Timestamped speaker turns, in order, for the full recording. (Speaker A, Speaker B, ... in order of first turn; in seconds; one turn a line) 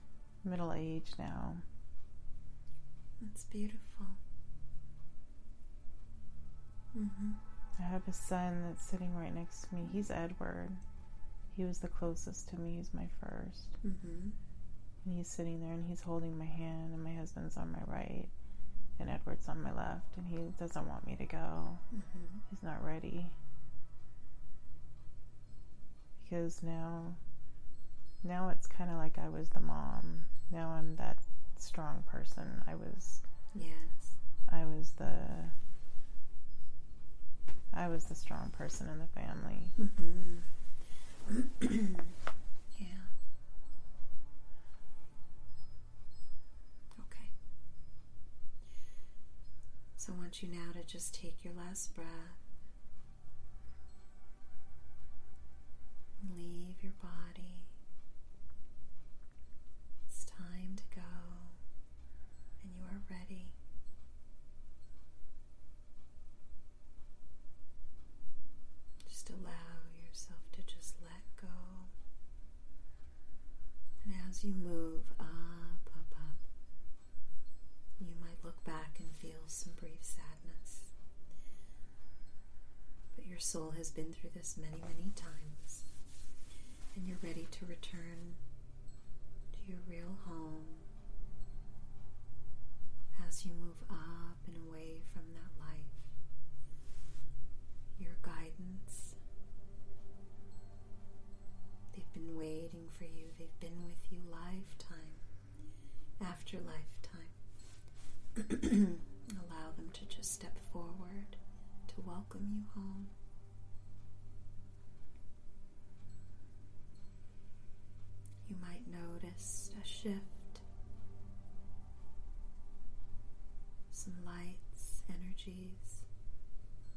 Speaker A: 0.4-1.6
Speaker B: 3.2-4.2
Speaker B: 6.9-7.4
Speaker A: 7.8-10.8
Speaker A: 11.5-13.8
Speaker B: 13.8-14.4
Speaker A: 15.0-18.3
Speaker A: 19.0-21.8
Speaker B: 21.9-22.4
Speaker A: 22.5-23.4
Speaker A: 26.2-27.2
Speaker A: 28.2-33.2
Speaker B: 33.5-34.2
Speaker A: 34.5-35.5
Speaker A: 37.7-39.8
Speaker B: 39.8-40.5
Speaker B: 41.3-42.1
Speaker B: 42.8-43.1
Speaker B: 47.0-47.3
Speaker B: 50.0-52.4
Speaker B: 56.2-57.7
Speaker B: 60.1-61.6
Speaker B: 62.6-63.5
Speaker B: 69.0-71.9
Speaker B: 74.0-76.5
Speaker B: 78.0-80.9
Speaker B: 83.1-85.9
Speaker B: 87.0-88.4
Speaker B: 89.5-90.9
Speaker B: 93.1-96.1
Speaker B: 98.0-99.2
Speaker B: 101.9-105.2
Speaker B: 106.2-107.3
Speaker B: 108.3-113.1
Speaker B: 118.5-120.6
Speaker B: 123.9-126.0